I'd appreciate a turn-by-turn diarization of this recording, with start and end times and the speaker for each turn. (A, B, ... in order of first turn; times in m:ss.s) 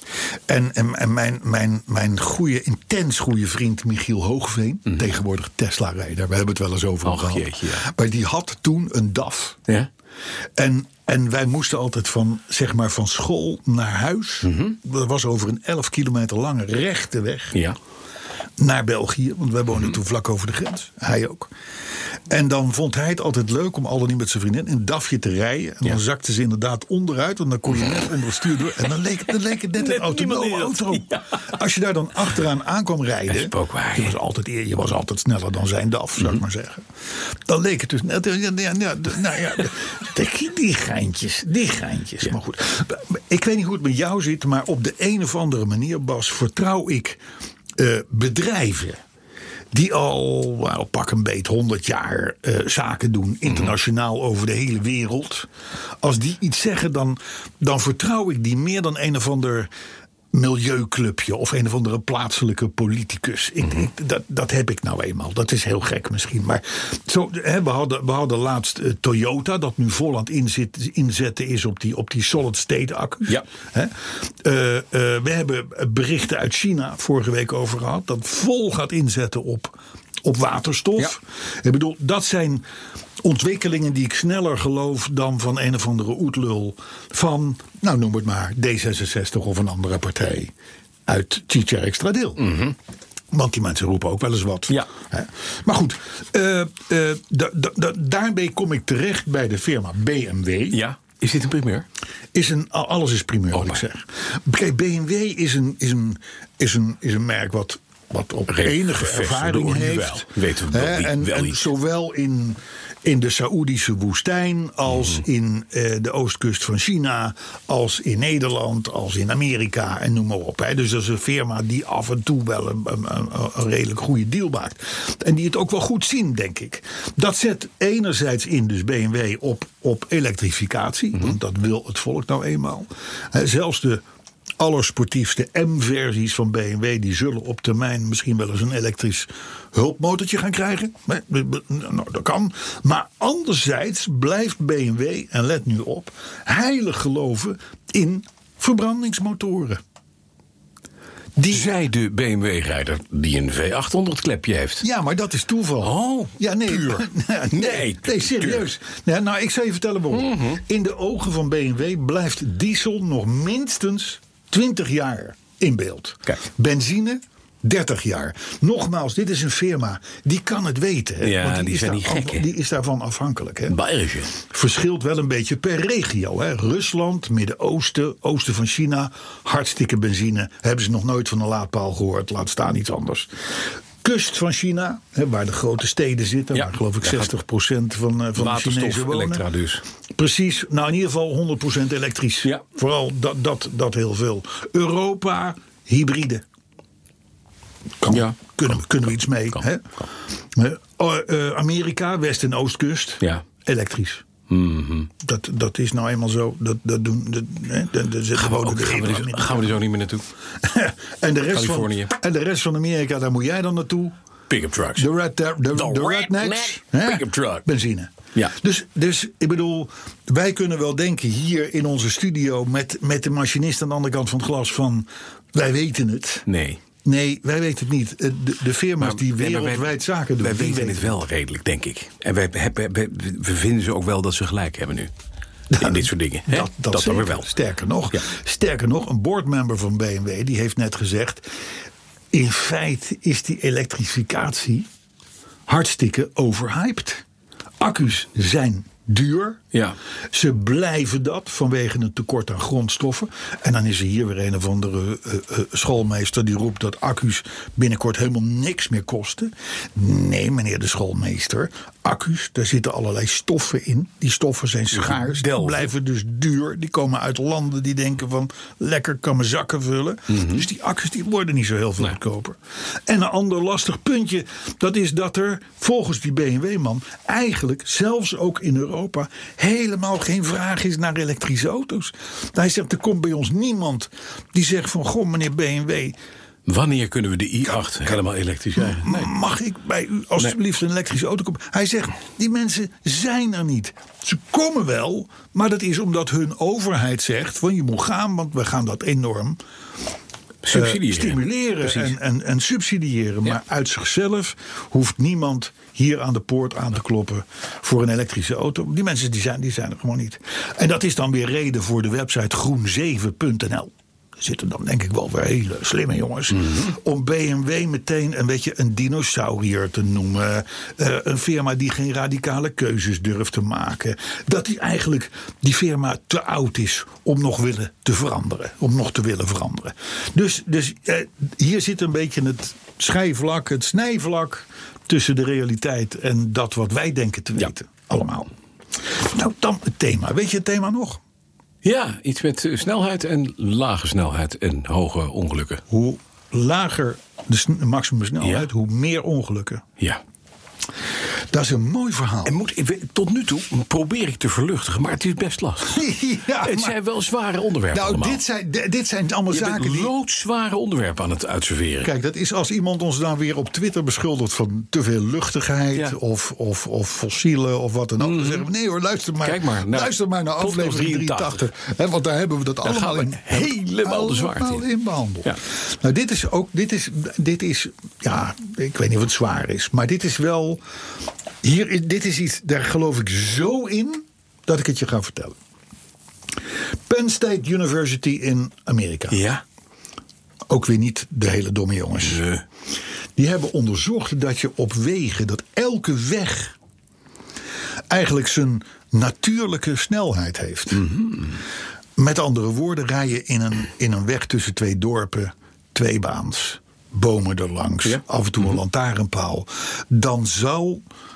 0:00.5-0:09.6 A
0:07.0-0:07.8 B
0:10.6-0:17.6 A
0:14.4-0:14.8 B
0:18.6-0:21.5 A
0:22.3-0:47.2 A
0:29.3-0:31.5 B
0:33.3-0:34.2 B
0:47.8-0:49.0 A
0:49.7-0:55.5 A
0:53.5-0:53.7 B
0:56.0-0:59.7 A
1:00.3-1:22.6 A
1:23.2-1:30.5 A
1:31.1-1:32.5 A
1:32.4-1:32.7 B
1:33.3-1:40.8 A
1:40.7-1:41.9 B
1:42.3-2:14.0 A
1:43.5-1:43.8 B
1:48.5-1:51.7 B
2:14.6-2:29.8 A
2:31.4-2:31.7 A
2:31.5-2:34.8 B
2:34.8-2:53.8 A
2:35.8-2:38.6 B
2:40.1-2:40.6 B
2:51.2-2:52.5 B
2:53.7-2:54.3 B
2:54.3-3:03.3 A
3:04.0-3:09.4 A
3:06.5-3:07.3 B
3:08.4-3:09.8 B
3:10.2-3:16.4 A
3:18.0-3:19.8 A
3:18.1-3:18.5 B
3:20.5-3:24.2 A
3:24.5-3:25.1 B
3:25.2-3:29.8 A
3:28.3-3:30.2 B
3:30.6-3:34.1 A
3:31.5-3:32.1 B
3:34.5-3:35.1 B
3:35.0-3:46.4 A
3:35.7-3:37.7 B
3:46.4-3:46.8 B
3:47.0-3:51.2 A
3:49.0-3:55.1 B
3:55.7-4:01.5 A
3:55.8-3:57.5 B
4:02.3-4:04.9 A
4:05.7-4:07.2 A
4:07.8-4:09.6 A
4:10.3-4:46.2 A
4:24.9-4:25.8 B
4:30.3-4:30.6 B
4:46.6-4:49.3 B
4:47.6-4:48.2 A
4:48.7-4:59.6 A
5:00.6-5:02.2 B
5:00.7-5:41.2 A
5:41.8-5:45.8 B
5:45.9-5:49.8 A
5:48.4-5:48.7 B
5:51.5-5:52.5 A
5:52.4-5:56.0 B
5:55.8-5:57.0 A
5:56.6-5:58.4 B
5:57.9-6:00.1 A
5:59.5-6:02.1 B
6:02.0-6:20.8 A
6:08.2-6:08.6 B
6:09.4-6:11.6 B
6:12.8-6:14.8 B
6:21.6-6:25.6 A
6:27.1-6:29.4 A
6:29.3-6:29.6 B
6:30.7-6:32.4 A
6:32.2-6:32.6 B
6:33.4-6:36.7 A
6:38.1-6:41.0 A
6:40.9-6:41.6 B
6:42.2-6:51.0 A
6:48.0-6:48.7 B